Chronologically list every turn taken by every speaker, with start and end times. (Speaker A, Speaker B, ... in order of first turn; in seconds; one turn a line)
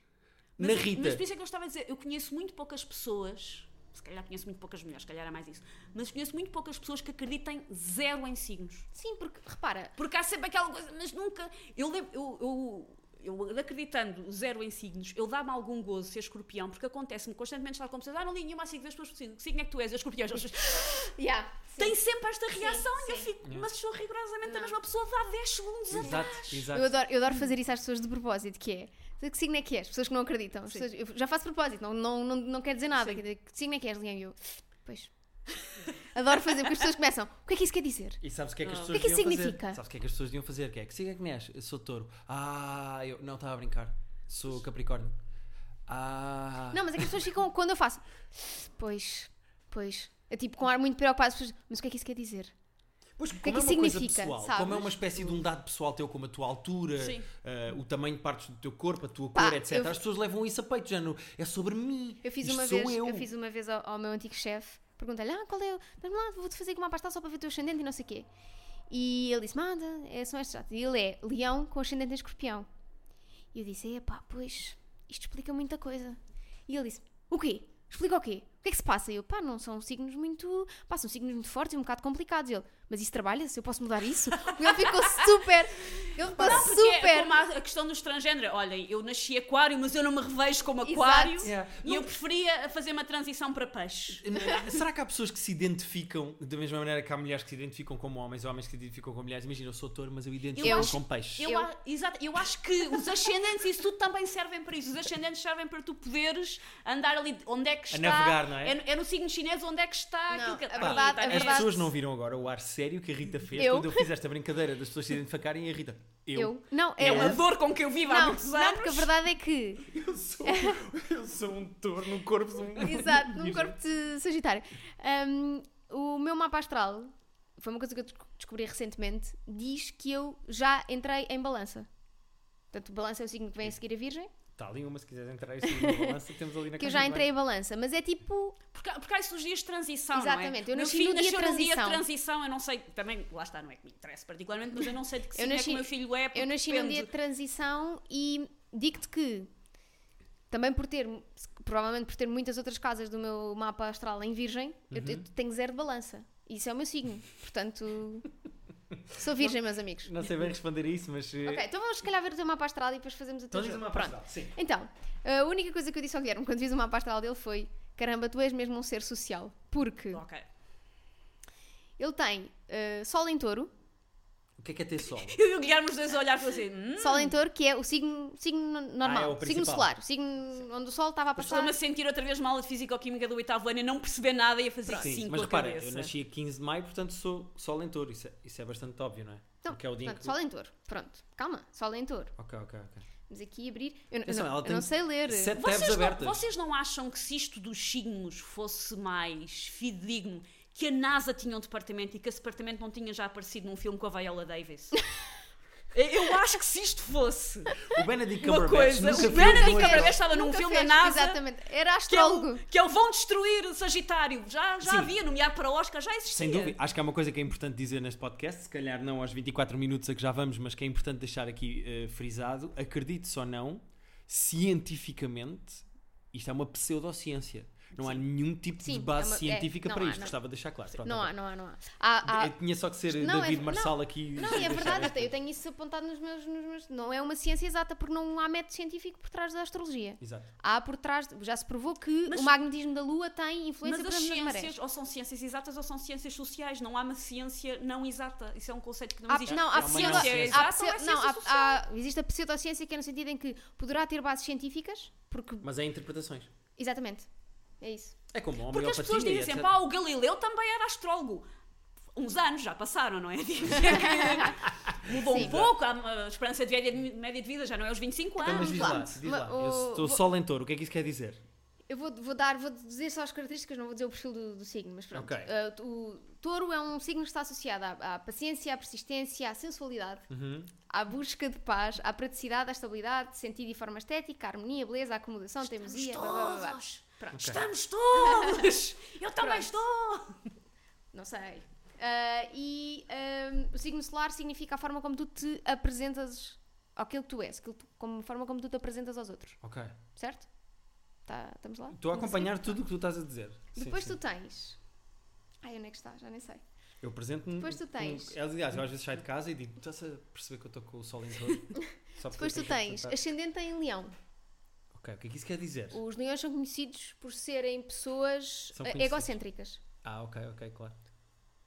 Speaker A: 0.6-8.9
Speaker B: 0.6-1.2
Speaker C: 8.9-9.9
Speaker A: 10.0-21.1
Speaker C: 21.1-22.0
Speaker A: 21.8-26.7
Speaker C: 22.5-23.3
Speaker B: 23.4-23.7
Speaker C: 24.4-24.7
Speaker B: 25.9-27.0
Speaker C: 26.0-35.1
Speaker C: 36.0-38.2
Speaker B: 38.2-45.2
Speaker A: 38.6-38.9
Speaker C: 38.9-39.8
Speaker B: 45.9-47.2
Speaker C: 46.7-52.5
Speaker B: 53.2-63.3
Speaker C: 53.4-55.3
Speaker A: 57.0-57.3
Speaker C: 59.3-60.0
Speaker C: 62.2-68.3
Speaker C: 68.9-72.7
Speaker C: 73.5-87.3
Speaker A: 84.5-94.2
Speaker C: 90.8-91.5
Speaker B: 91.4-92.1
Speaker B: 94.1-101.5
Speaker A: 100.5-111.8
Speaker C: 100.6-101.7
Speaker B: 107.9-108.8
Speaker C: 110.3-111.9
Speaker B: 110.8-117.4
Speaker C: 113.5-114.1
Speaker C: 116.3-117.4
Speaker A: 117.0-119.1
Speaker C: 118.1-119.9
Speaker B: 119.8-123.7
Speaker C: 120.4-120.8
Speaker C: 122.8-131.9
Speaker C: 132.7-134.3
Speaker B: 134.6-137.3
Speaker C: 135.6-136.2
Speaker C: 136.8-138.6
Speaker A: 138.7-147.1
Speaker C: 140.1-142.0
Speaker C: 145.3-149.5
Speaker C: 150.5-158.3
Speaker B: 154.9-155.2
Speaker C: 159.1-160.2
Speaker B: 159.1-161.7
Speaker C: 161.4-170.2
Speaker B: 163.5-164.6
Speaker A: 170.1-170.4
Speaker C: 172.0-173.7
Speaker B: 174.6-175.4
Speaker A: 175.1-177.4
Speaker C: 177.0-181.7
Speaker B: 179.0-179.9
Speaker A: 181.3-186.1
Speaker C: 184.9-185.1
Speaker B: 184.9-190.3
Speaker C: 189.6-192.3
Speaker B: 192.4-193.0
Speaker C: 193.3-195.6
Speaker B: 194.2-196.4
Speaker A: 195.6-205.0
Speaker A: 205.9-211.4
Speaker B: 207.8-210.2
Speaker C: 209.1-212.6
Speaker A: 212.1-216.8
Speaker B: 214.8-215.1
Speaker B: 216.3-231.3
Speaker C: 228.8-230.3
Speaker C: 231.0-232.5
Speaker B: 232.2-235.3
Speaker C: 233.1-244.7
Speaker A: 234.5-234.8
Speaker B: 240.2-240.5
Speaker A: 242.3-242.6
Speaker A: 243.8-251.8
Speaker C: 249.3-255.7
Speaker B: 249.5-250.6
Speaker B: 255.6-256.5
Speaker C: 256.8-257.3
Speaker C: 257.8-258.1
Speaker B: 258.3-259.7
Speaker A: 258.7-261.4
Speaker A: 262.1-269.1
Speaker C: 263.8-265.6
Speaker B: 264.9-265.7
Speaker C: 268.4-270.2
Speaker B: 268.4-271.4
Speaker C: 271.9-280.3
Speaker B: 275.1-275.5
Speaker B: 280.3-280.7
Speaker C: 280.9-287.6
Speaker A: 285.6-290.4
Speaker B: 287.3-287.6
Speaker C: 288.1-288.7
Speaker C: 289.4-289.7
Speaker C: 291.1-299.6
Speaker B: 299.6-299.9
Speaker C: 300.1-300.5
Speaker C: 301.2-302.7
Speaker B: 301.9-304.2
Speaker C: 303.8-304.8
Speaker C: 305.6-306.6
Speaker B: 307.0-313.2
Speaker C: 307.6-308.4
Speaker C: 311.8-314.1
Speaker B: 314.9-316.0
Speaker C: 315.9-319.8
Speaker B: 318.7-319.3
Speaker B: 320.0-321.0